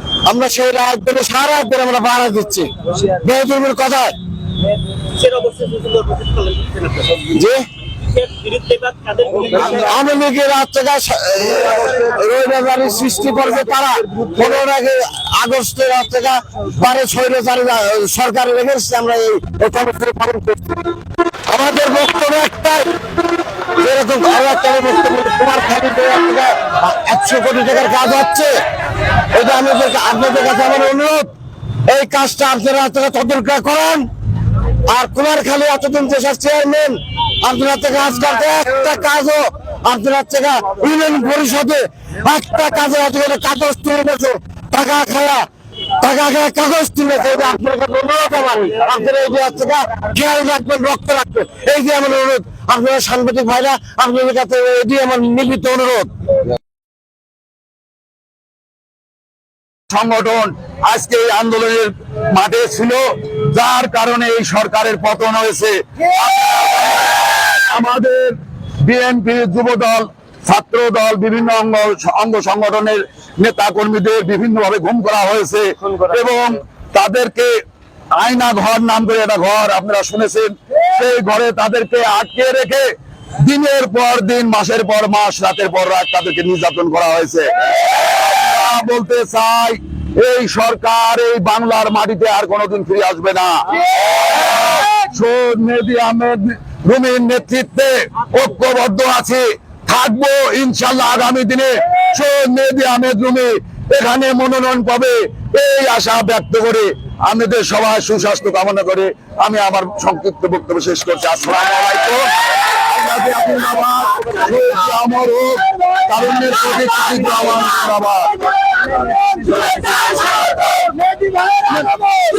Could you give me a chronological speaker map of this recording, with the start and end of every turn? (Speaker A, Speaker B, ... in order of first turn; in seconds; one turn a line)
Speaker A: 0.2-4.1
Speaker B: 4.9-7.2
Speaker A: 7.2-7.6
Speaker B: 8.0-9.9
Speaker A: 9.5-20.8
Speaker A: 21.5-22.9
Speaker A: 23.8-28.5
Speaker A: 29.3-31.3
Speaker A: 31.9-34.1
Speaker A: 34.9-45.5
Speaker A: 46.0-56.1
Speaker C: 59.9-77.5
Speaker C: 78.1-93.6
Speaker C: 94.3-118.4
Speaker A: 120.8-121.8